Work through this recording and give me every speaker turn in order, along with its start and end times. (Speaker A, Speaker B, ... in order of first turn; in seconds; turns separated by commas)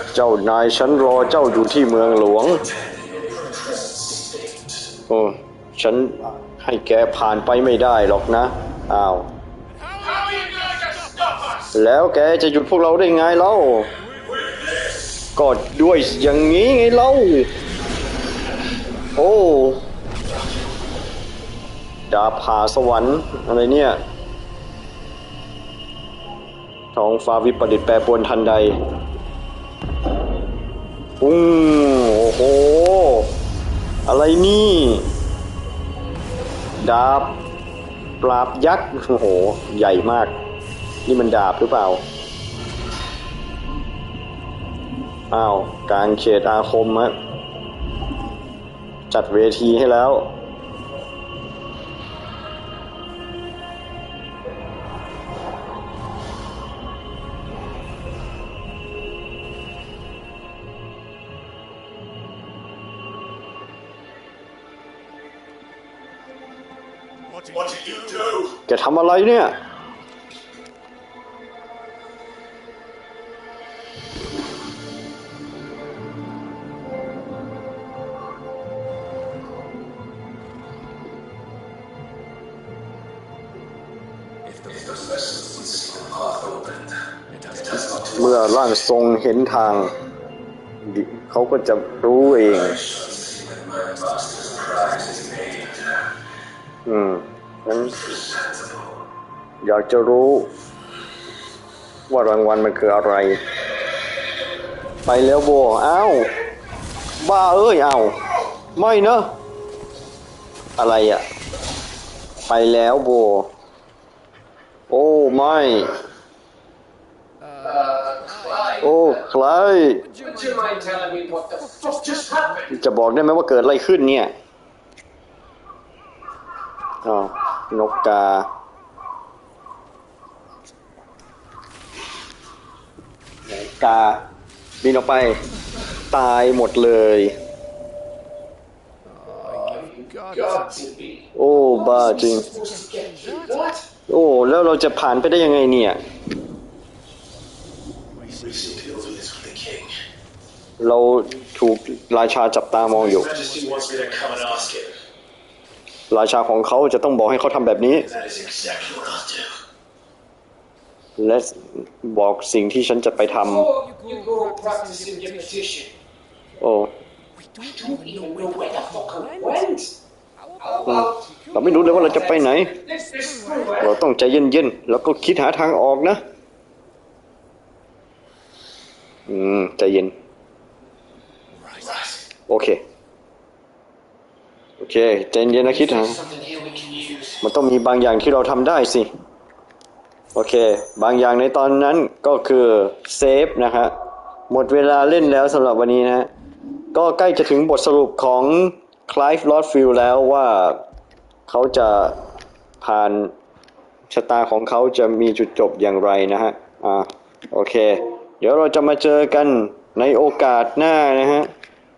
Speaker A: 0.1-2.7, Speaker B: 2.8-4.8, Speaker A: 5.1-9.3, Speaker A: 11.7-13.9, Speaker A: 15.3-17.5, Speaker A: 19.1-19.8, Speaker A: 22.1-24.0, Speaker A: 26.9-28.8, Speaker A: 31.2-33.3, Speaker A: 34.0-35.1, Speaker A: 36.8-37.4, Speaker A: 38.2-40.3, Speaker A: 41.0-42.0, Speaker A: 45.3-47.1, Speaker A: 49.1-50.3, Speaker B: 67.5-68.5, Speaker A: 68.7-69.6, Speaker B: 84.7-86.9, Speaker B: 87.5-88.2, Speaker A: 88.1-89.9, Speaker A: 90.8-92.8, Speaker B: 92.8-95.8, Speaker A: 96.8-98.2, Speaker A: 99.6-100.5, Speaker A: 102.1-103.4, Speaker A: 105.0-106.3, Speaker A: 107.2-108.2, Speaker A: 108.7-109.3, Speaker A: 110.8-111.2, Speaker A: 112.5-113.5, Speaker A: 114.9-116.0, Speaker C: 117.6-118.8, Speaker A: 118.8-120.0, Speaker C: 120.2-122.7, Speaker A: 122.7-124.3, Speaker A: 127.0-128.5, Speaker A: 133.5-134.2, Speaker A: 134.8-135.4, Speaker A: 136.1-137.3, Speaker C: 139.4-141.3, Speaker A: 141.3-142.4, Speaker C: 141.8-143.8, Speaker A: 144.1-146.0, Speaker B: 148.4-149.9, Speaker A: 150.8-153.3, Speaker B: 153.1-154.9, Speaker A: 156.1-158.1, Speaker B: 158.1-159.5, Speaker A: 161.2-163.7, Speaker C: 163.4-165.9, Speaker A: 166.6-166.9, Speaker C: 167.5-169.9, Speaker C: 170.6-173.9, Speaker A: 170.8-172.7, Speaker A: 173.8-176.2, Speaker A: 179.3-180.1, Speaker A: 182.5-182.8, Speaker A: 184.8-186.2, Speaker C: 185.7-187.4, Speaker A: 187.4-189.1, Speaker A: 190.3-193.9, Speaker A: 194.5-196.3, Speaker A: 196.9-200.8, Speaker A: 201.5-202.2, Speaker A: 202.8-203.3, Speaker A: 204.1-211.5